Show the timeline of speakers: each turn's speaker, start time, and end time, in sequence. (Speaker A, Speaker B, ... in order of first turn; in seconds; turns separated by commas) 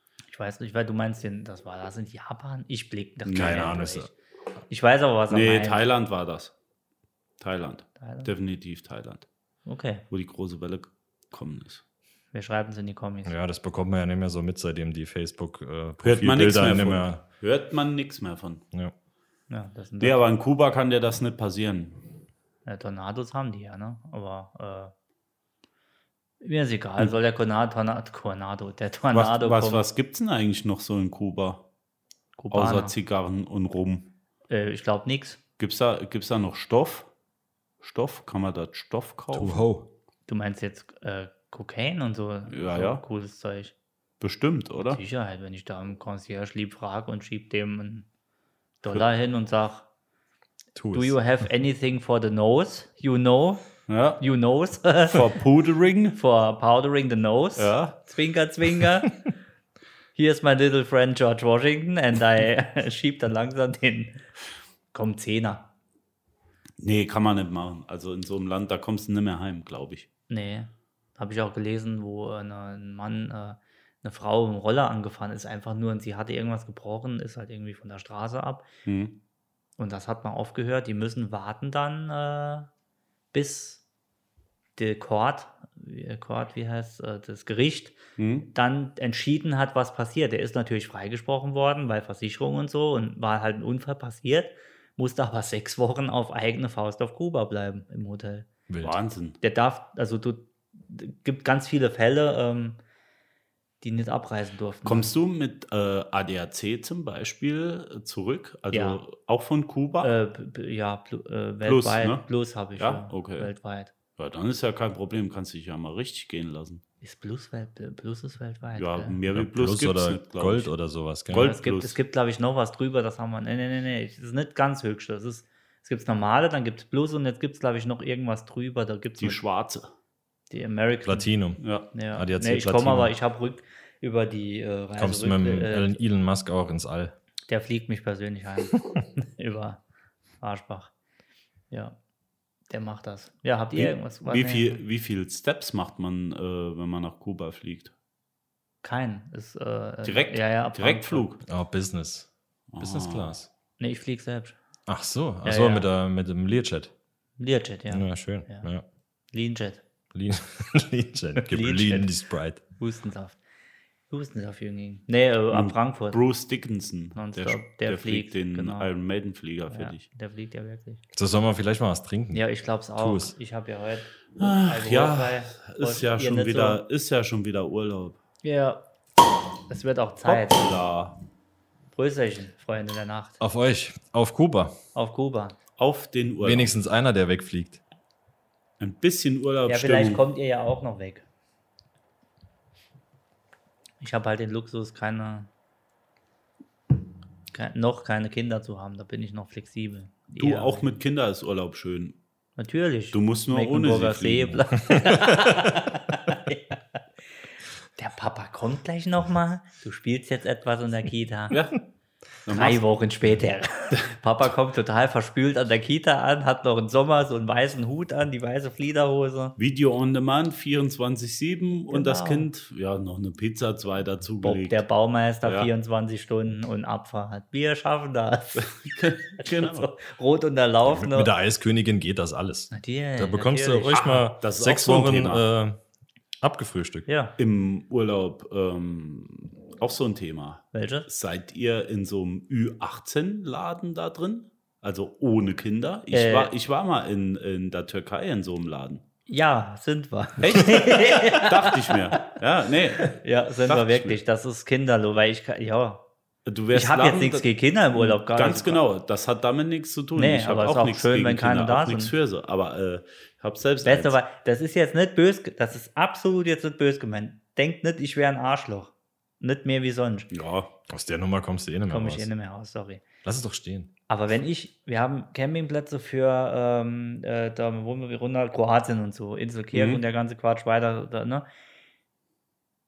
Speaker A: 0.2-4.1, Speaker B: 3.2-3.9, Speaker C: 3.3-4.1, Speaker A: 4.7-5.8, Speaker B: 5.3-6.5, Speaker B: 7.4-9.3, Speaker A: 8.0-8.3, Speaker A: 9.7-10.0, Speaker B: 10.1-11.8, Speaker A: 12.3-13.3, Speaker C: 13.2-17.2, Speaker B: 16.0-18.6, Speaker A: 19.5-20.2, Speaker B: 20.0-22.0, Speaker A: 22.6-24.9, Speaker A: 26.4-29.8, Speaker B: 29.1-31.6, Speaker A: 32.4-32.9, Speaker B: 32.5-34.1, Speaker A: 34.5-35.4, Speaker B: 35.6-37.1, Speaker B: 37.8-39.6, Speaker C: 39.3-39.9, Speaker A: 40.3-43.7, Speaker B: 42.5-43.0, Speaker B: 44.2-45.0, Speaker A: 44.8-48.1, Speaker A: 48.8-49.9, Speaker C: 50.7-51.2, Speaker A: 50.9-53.7, Speaker B: 53.9-54.2, Speaker A: 54.2-55.4, Speaker B: 55.1-56.2, Speaker A: 56.1-59.3, Speaker B: 57.5-58.0, Speaker A: 60.1-64.2, Speaker A: 64.9-65.7, Speaker B: 66.8-70.1, Speaker A: 70.3-78.7, Speaker B: 78.8-79.2, Speaker A: 79.8-82.7, Speaker A: 83.3-83.8, Speaker A: 84.8-88.0, Speaker B: 88.2-88.5, Speaker A: 88.5-98.5, Speaker C: 98.7-98.9, Speaker B: 98.8-99.4, Speaker A: 99.4-102.8, Speaker A: 103.8-105.1, Speaker B: 104.8-110.1, Speaker A: 108.7-109.0, Speaker A: 110.0-113.9, Speaker B: 111.6-112.2, Speaker B: 112.8-113.5, Speaker B: 114.2-116.8, Speaker A: 117.0-119.1, Speaker B: 118.8-120.7, Speaker C: 119.3-121.5, Speaker B: 121.3-122.0, Speaker A: 121.3-129.4, Speaker B: 129.2-129.9, Speaker A: 130.5-131.3, Speaker C: 131.1-131.6, Speaker B: 131.6-131.9, Speaker A: 131.9-136.0, Speaker C: 132.1-133.1, Speaker C: 135.0-137.1, Speaker A: 137.5-139.8, Speaker A: 140.4-140.9, Speaker A: 141.7-141.9, Speaker A: 142.7-144.8, Speaker B: 143.7-147.9, Speaker A: 148.8-151.2, Speaker B: 150.0-151.4, Speaker C: 151.4-153.5, Speaker B: 152.7-153.4, Speaker A: 153.8-154.6, Speaker C: 154.9-156.9, Speaker A: 155.4-155.9, Speaker A: 157.4-158.7, Speaker C: 157.9-158.8, Speaker A: 159.3-159.8, Speaker C: 160.1-162.6, Speaker A: 161.4-162.1, Speaker A: 162.8-163.4, Speaker A: 164.1-166.2, Speaker B: 165.5-170.0, Speaker A: 167.1-168.9, Speaker A: 169.7-171.0, Speaker C: 171.2-173.3, Speaker A: 172.3-176.8, Speaker B: 174.4-178.2, Speaker A: 178.4-178.8, Speaker A: 179.7-180.6, Speaker B: 180.2-181.2, Speaker A: 181.9-183.4, Speaker C: 183.4-184.8, Speaker A: 184.9-185.5, Speaker B: 185.8-186.7, Speaker C: 186.4-187.8, Speaker B: 188.8-190.2, Speaker A: 189.7-191.2, Speaker A: 194.0-195.5, Speaker A: 197.5-200.8, Speaker B: 200.4-202.2, Speaker A: 202.6-206.8, Speaker B: 203.1-204.7, Speaker A: 208.0-211.6, Speaker B: 211.5-211.8, Speaker B: 212.4-212.8, Speaker A: 212.5-219.5, Speaker B: 219.6-224.8, Speaker A: 221.9-222.5, Speaker A: 224.4-228.8, Speaker B: 225.4-225.7, Speaker B: 228.6-229.9, Speaker A: 229.3-231.3, Speaker C: 230.8-235.8, Speaker A: 232.7-234.3, Speaker B: 234.4-235.4, Speaker C: 236.4-237.1, Speaker A: 237.1-237.3, Speaker B: 237.4-249.0, Speaker A: 240.7-241.1, Speaker A: 246.1-246.5, Speaker A: 249.3-252.3, Speaker B: 250.4-254.2, Speaker A: 253.0-256.0, Speaker B: 256.4-264.1, Speaker A: 256.7-258.8, Speaker A: 260.1-262.1, Speaker A: 263.8-270.3, Speaker B: 270.3-270.7, Speaker C: 270.9-272.3, Speaker A: 271.9-273.0, Speaker C: 273.2-273.9, Speaker A: 274.1-281.4, Speaker B: 279.7-280.0